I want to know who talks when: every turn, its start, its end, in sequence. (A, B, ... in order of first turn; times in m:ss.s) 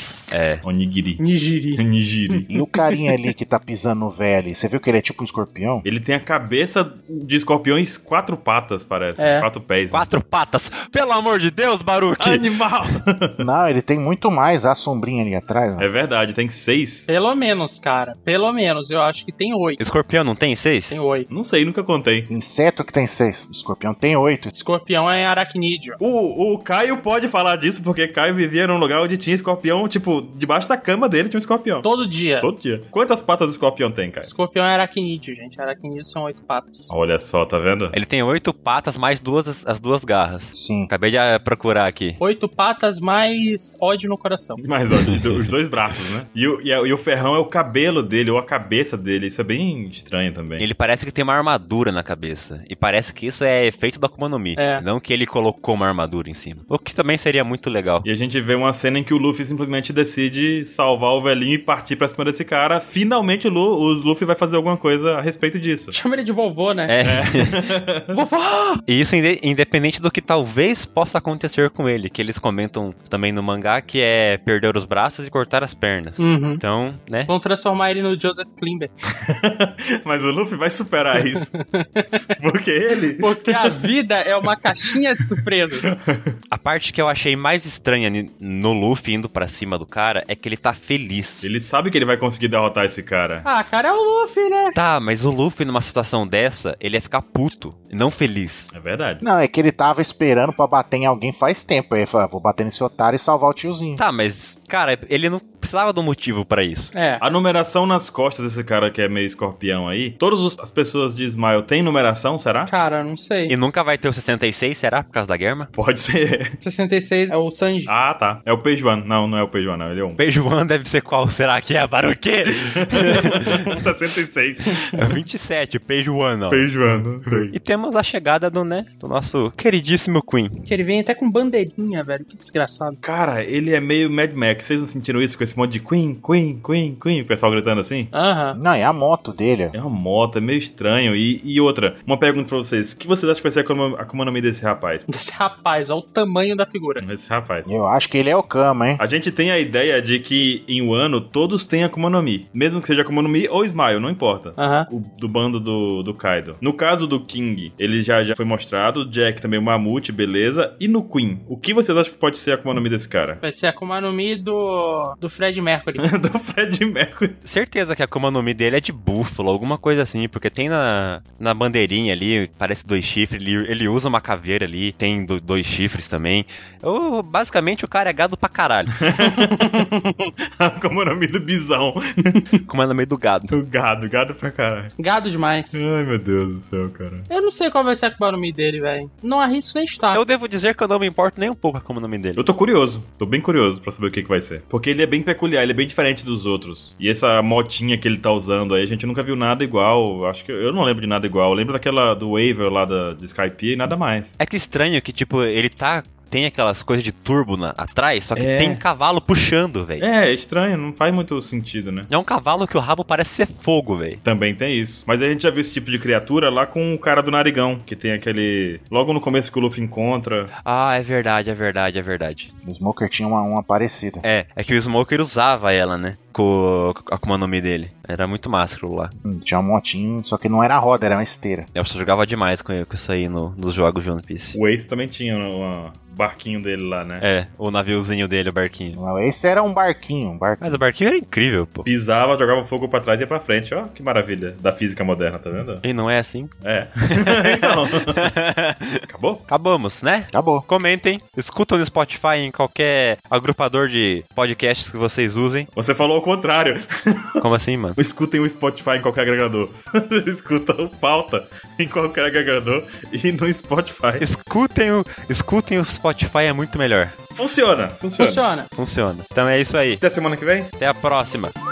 0:00.3-0:00.6 A
0:00.6-0:01.2 B
0:01.2-0:03.0 C
0:01.8-0:02.4 B
0:02.5-0:05.8 D
0:05.8-0:10.1 B
0:09.2-0:09.5 C
0:09.9-0:12.5 A
0:12.2-0:13.4 B
0:13.4-0:15.9 D
0:15.8-0:17.1 B
0:17.1-0:19.8 C
0:19.8-0:21.0 A
0:20.9-0:21.3 C
0:21.3-0:22.3 B
0:22.3-0:24.5 D
0:24.5-0:26.0 C
0:26.0-0:31.9 B
0:31.8-0:32.5 C
0:32.4-0:34.3 B
0:34.2-0:36.9 C
0:36.9-0:37.9 B
0:37.9-0:42.2 A
0:40.5-0:40.9 D
0:42.2-0:44.6 C
0:44.6-0:50.6 B
0:45.1-0:45.4 A
0:50.6-0:58.1 A
0:54.6-0:54.8 C
0:58.0-1:06.0 B
1:05.9-1:06.9 C
1:06.9-1:07.7 A
1:07.0-1:08.2 B
1:08.1-1:08.8 C
1:08.8-1:17.3 A
1:16.2-1:16.6 C
1:17.3-1:18.9 C
1:19.2-1:21.5 B
1:21.3-1:22.2 C
1:22.3-1:23.8 B
1:23.2-1:26.0 C
1:25.7-1:26.4 B
1:26.5-1:31.5 A
1:31.4-1:33.4 B
1:33.4-1:34.8 C
1:34.7-1:38.7 A
1:38.7-1:39.2 B
1:39.2-1:44.0 D
1:44.0-1:46.9 A
1:46.9-1:47.2 C
1:47.2-1:52.7 B
1:52.7-1:53.5 C
1:53.5-1:55.7 A
1:55.8-1:56.6 B
1:56.6-1:57.9 C
1:57.9-2:00.2 B
2:00.2-2:03.8 A
2:02.5-2:05.0 B
2:05.0-2:06.7 A
2:06.5-2:07.5 B
2:07.5-2:10.7 A
2:10.7-2:13.0 C
2:13.0-2:18.1 B
2:18.1-2:18.6 C
2:18.5-2:19.7 D
2:19.7-2:25.0 B
2:25.1-2:27.0 C
2:27.0-2:27.7 B
2:27.6-2:29.0 D
2:29.0-2:43.4 B
2:34.6-2:34.9 C
2:43.4-2:46.0 C
2:46.0-2:47.4 B
2:47.4-2:59.0 A
2:59.0-2:59.8 B
2:59.2-3:00.3 C
3:00.6-3:02.5 B
3:02.6-3:03.5 A
3:03.5-3:04.9 B
3:05.0-3:05.8 C
3:05.7-3:07.3 B
3:07.3-3:10.2 C
3:10.1-3:12.4 A
3:12.4-3:24.3 B
3:24.4-3:30.1 A
3:28.4-3:28.8 B
3:30.0-3:32.1 B
3:32.1-3:34.2 A
3:34.2-3:40.5 B
3:40.6-3:42.5 A
3:42.6-3:44.2 D
3:44.2-3:49.1 A
3:49.2-3:51.7 D
3:51.7-3:54.6 A
3:54.5-3:57.2 B
3:57.2-3:59.0 A
3:58.9-4:00.6 D
4:00.6-4:01.9 A
4:01.8-4:05.8 B
4:05.8-4:06.5 A
4:06.6-4:08.3 B
4:07.1-4:15.7 A
4:09.1-4:09.4 B
4:10.3-4:10.6 D
4:15.7-4:24.2 B
4:17.4-4:18.0 A
4:24.2-4:27.2 A
4:27.3-4:28.4 B
4:28.2-4:28.7 C
4:28.8-4:30.0 A
4:30.0-4:30.7 B
4:30.8-4:31.5 A